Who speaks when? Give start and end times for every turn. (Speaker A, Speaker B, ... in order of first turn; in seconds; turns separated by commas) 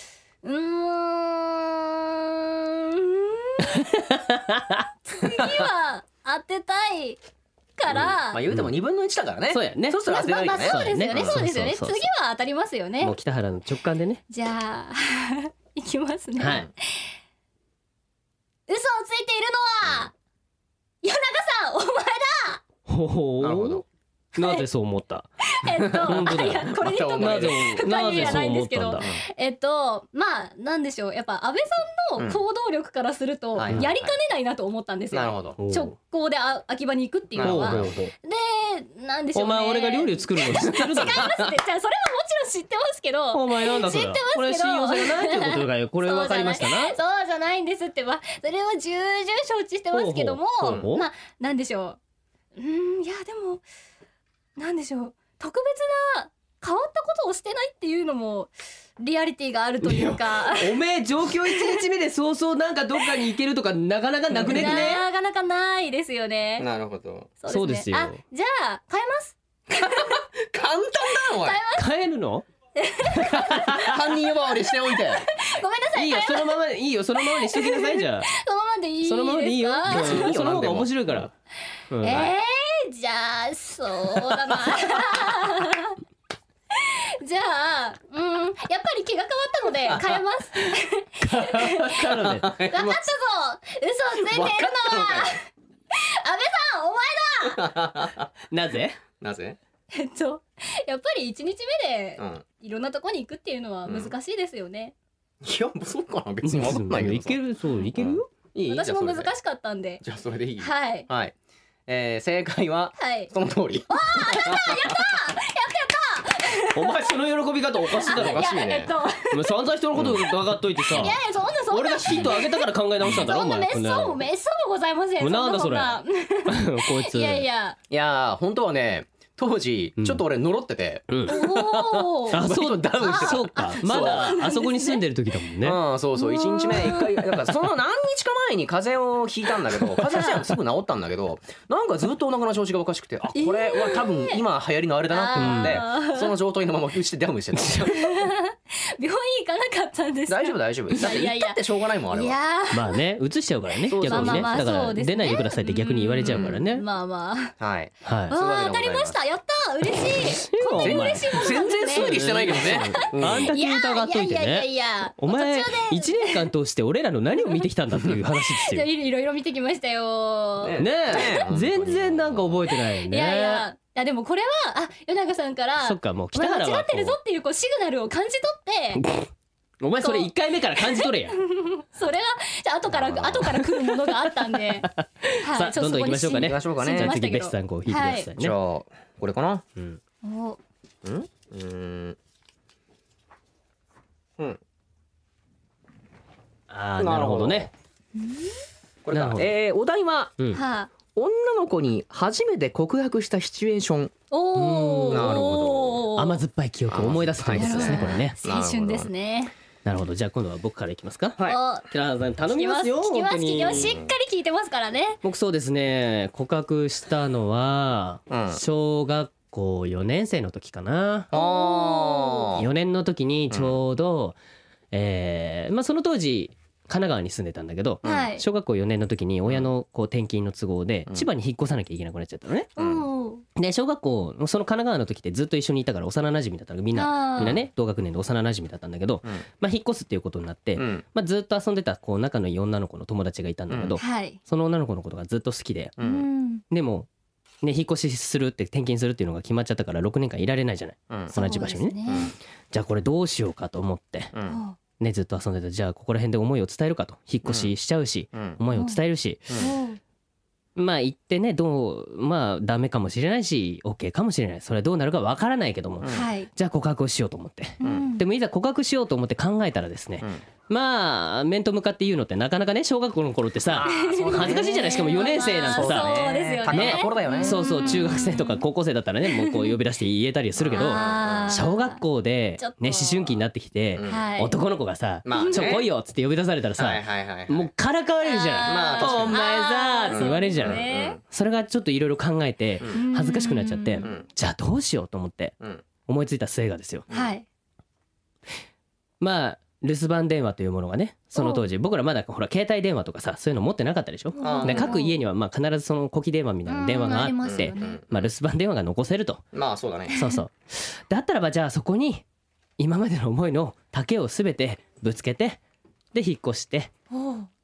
Speaker A: 0.4-3.9, Speaker B: 3.6-4.9, Speaker A: 5.1-7.2, Speaker C: 5.2-5.7, Speaker A: 7.8-8.4, Speaker B: 7.9-8.7, Speaker C: 8.3-11.4, Speaker B: 9.5-10.0, Speaker A: 10.1-13.2, Speaker B: 10.6-12.1, Speaker B: 13.0-14.2, Speaker A: 14.3-17.1, Speaker B: 16.4-16.7, Speaker A: 18.7-20.1, Speaker A: 21.0-22.6, Speaker B: 22.9-23.8, Speaker C: 23.4-23.9, Speaker B: 24.4-25.3, Speaker A: 24.4-24.6, Speaker A: 25.4-52.0, Speaker C: 25.9-28.4, Speaker B: 26.0-29.1, Speaker C: 29.0-29.2, Speaker C: 33.5-34.1, Speaker C: 35.1-35.6, Speaker B: 35.6-35.9, Speaker C: 37.4-37.9, Speaker B: 37.4-38.1, Speaker B: 39.4-41.3, Speaker C: 41.0-41.5, Speaker B: 43.3-47.0, Speaker B: 49.9-51.1, Speaker A: 52.6-53.6, Speaker A: 54.6-60.8, Speaker B: 59.8-65.0, Speaker A: 61.4-61.8, Speaker C: 64.3-64.9, Speaker A: 64.5-66.7, Speaker C: 66.6-67.3, Speaker A: 67.4-70.1, Speaker B: 67.5-68.2, Speaker C: 69.7-71.6, Speaker A: 71.2-71.9, Speaker B: 71.8-72.5, Speaker A: 72.8-74.0, Speaker B: 73.0-74.0, Speaker C: 73.6-75.3, Speaker A: 74.5-76.6, Speaker B: 76.0-78.3, Speaker A: 77.2-80.4, Speaker B: 79.0-81.3, Speaker C: 79.9-81.3, Speaker B: 81.9-82.3, Speaker A: 82.0-86.0, Speaker A: 86.7-92.2, Speaker C: 89.9-90.2, Speaker B: 91.2-92.6, Speaker C: 92.0-93.0, Speaker A: 92.7-97.8, Speaker C: 94.1-95.4, Speaker C: 97.5-98.3, Speaker B: 98.5-99.0, Speaker C: 99.2-99.6, Speaker A: 99.9-104.9, Speaker C: 102.2-102.4, Speaker C: 103.9-104.1, Speaker C: 105.4-107.4, Speaker B: 106.4-108.3, Speaker C: 108.0-109.3, Speaker A: 108.7-110.0, Speaker C: 110.0-111.3, Speaker A: 110.6-111.1, Speaker C: 111.9-115.2, Speaker A: 113.0-113.3, Speaker A: 113.9-117.0, Speaker B: 116.7-118.5, Speaker A: 117.9-119.6, Speaker C: 118.1-118.9, Speaker B: 119.3-121.2, Speaker C: 120.0-120.3, Speaker A: 120.9-127.8, Speaker B: 121.7-124.2, Speaker B: 125.2-127.5, Speaker C: 127.9-134.3, Speaker B: 131.1-131.4, Speaker A: 131.3-132.4, Speaker B: 132.3-135.8, Speaker A: 133.0-135.0, Speaker C: 135.6-148.1, Speaker A: 136.2-137.3, Speaker A: 143.3-144.4, Speaker A: 145.1-146.3, Speaker B: 145.4-145.8, Speaker B: 147.6-147.8, Speaker A: 147.9-153.0, Speaker C: 150.3-152.4, Speaker B: 152.7-156.8, Speaker C: 153.9-154.7, Speaker A: 154.0-157.6, Speaker C: 156.2-156.6, Speaker C: 157.6-159.2, Speaker B: 158.0-158.3, Speaker A: 158.3-166.5, Speaker B: 160.2-164.7, Speaker C: 160.8-163.5, Speaker B: 165.2-168.9, Speaker A: 168.4-171.4, Speaker C: 170.6-172.6, Speaker B: 170.8-173.7, Speaker A: 173.1-179.0, Speaker B: 175.8-177.2, Speaker B: 178.9-179.3, Speaker B: 179.8-181.4, Speaker A: 180.0-188.3, Speaker C: 182.9-183.5, Speaker B: 183.4-188.6, Speaker C: 186.3-187.2, Speaker C: 188.3-189.7, Speaker A: 190.2-190.6, Speaker C: 191.0-192.2, Speaker B: 196.7-197.7, Speaker C: 197.0-197.7, Speaker A: 198.2-198.6, Speaker C: 199.1-200.4, Speaker B: 199.1-199.5, Speaker A: 200.5-200.9, Speaker C: 201.1-204.1, Speaker A: 204.3-206.4, Speaker B: 204.6-205.5, Speaker C: 205.1-206.1, Speaker B: 206.2-208.3, Speaker C: 206.9-209.1, Speaker A: 207.6-209.5, Speaker B: 209.8-214.0, Speaker A: 211.4-211.9, Speaker A: 212.5-215.2, Speaker C: 213.7-214.1, Speaker B: 215.2-221.3, Speaker C: 218.3-218.6, Speaker A: 221.3-222.6, Speaker C: 221.3-222.7, Speaker B: 222.6-224.4, Speaker C: 223.5-223.8, Speaker B: 224.9-232.7, Speaker C: 228.0-228.3, Speaker A: 228.0-228.4, Speaker C: 232.8-233.1, Speaker A: 232.8-233.4, Speaker B: 233.6-245.9, Speaker A: 236.9-237.6, Speaker C: 240.8-241.1, Speaker C: 243.7-244.0, Speaker A: 244.0-244.4, Speaker C: 246.0-246.3, Speaker A: 246.0-246.6, Speaker B: 246.7-247.1, Speaker B: 247.6-252.0, Speaker C: 251.1-251.3, Speaker A: 251.3-252.3, Speaker C: 252.1-252.3, Speaker B: 252.7-254.3, Speaker C: 254.3-254.6, Speaker A: 254.5-254.8, Speaker B: 255.0-259.6, Speaker C: 257.4-257.7, Speaker C: 258.3-258.6, Speaker A: 258.7-259.0, Speaker A: 259.6-260.0, Speaker B: 260.8-295.6, Speaker C: 266.0-266.3, Speaker A: 266.1-266.5, Speaker A: 267.8-268.2, Speaker C: 267.8-268.1, Speaker C: 273.7-274.9, Speaker A: 273.8-278.6, Speaker C: 275.7-278.2, Speaker A: 279.3-279.8, Speaker C: 280.6-281.6, Speaker A: 280.8-282.0, Speaker A: 282.6-283.3, Speaker C: 283.9-284.3, Speaker A: 284.1-284.6, Speaker C: 285.2-285.9, Speaker A: 285.3-285.8, Speaker C: 286.8-287.7, Speaker A: 288.2-291.2, Speaker C: 288.7-289.4, Speaker C: 290.1-291.2, Speaker A: 292.9-294.1, Speaker C: 294.0-294.3, Speaker B: 296.1-297.1, Speaker A: 297.1-297.4, Speaker B: 299.2-309.4, Speaker A: 301.4-301.6, Speaker A: 304.4-305.2, Speaker C: 304.4-305.0, Speaker A: 306.7-308.0, Speaker C: 307.4-308.3, Speaker C: 309.5-310.2, Speaker A: 310.1-310.4, Speaker B: 310.1-312.2, Speaker B: 312.8-315.6, Speaker B: 316.1-316.9, Speaker A: 317.1-317.5